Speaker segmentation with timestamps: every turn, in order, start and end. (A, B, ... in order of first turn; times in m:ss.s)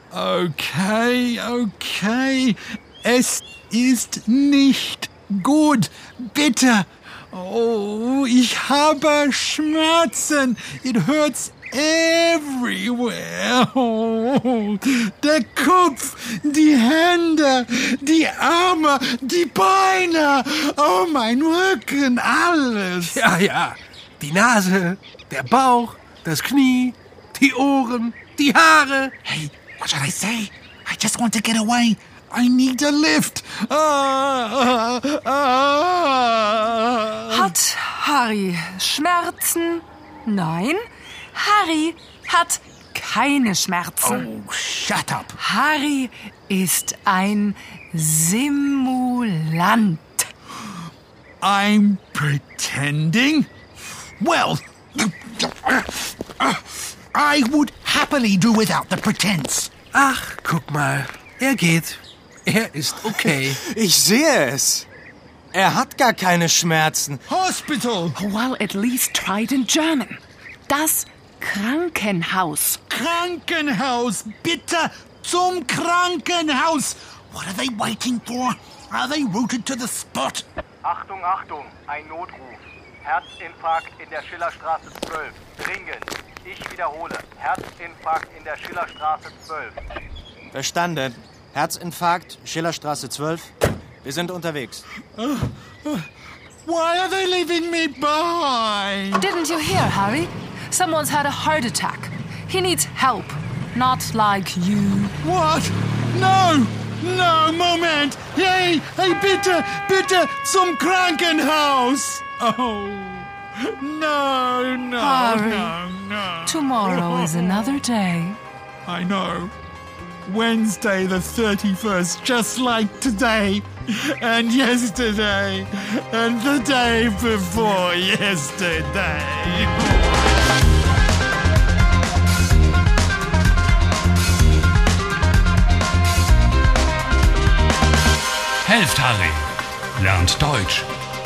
0:00.1-0:23.2 A
0:23.1-0:29.1 B
0:29.2-0:37.6 A
0:37.3-0:44.3 C
0:44.0-0:45.4 A
0:45.4-0:50.3 C
0:51.4-0:53.5 A
0:54.2-0:59.7 A
0:59.9-1:03.6 B
1:03.7-1:04.8 D
1:05.5-1:07.2 D
1:07.3-1:08.2 A
1:08.2-1:12.8 C
1:12.9-1:20.4 A
1:20.8-1:29.8 E
1:30.5-1:33.5 D
1:34.0-1:34.8 D
1:35.2-1:36.1 A
1:36.6-1:39.3 A
1:39.2-1:45.2 C
1:45.2-1:57.8 A
1:55.0-1:55.8 C
1:56.5-1:58.4 C
1:58.9-1:59.5 A
2:00.2-2:10.0 A
2:18.6-2:20.9 F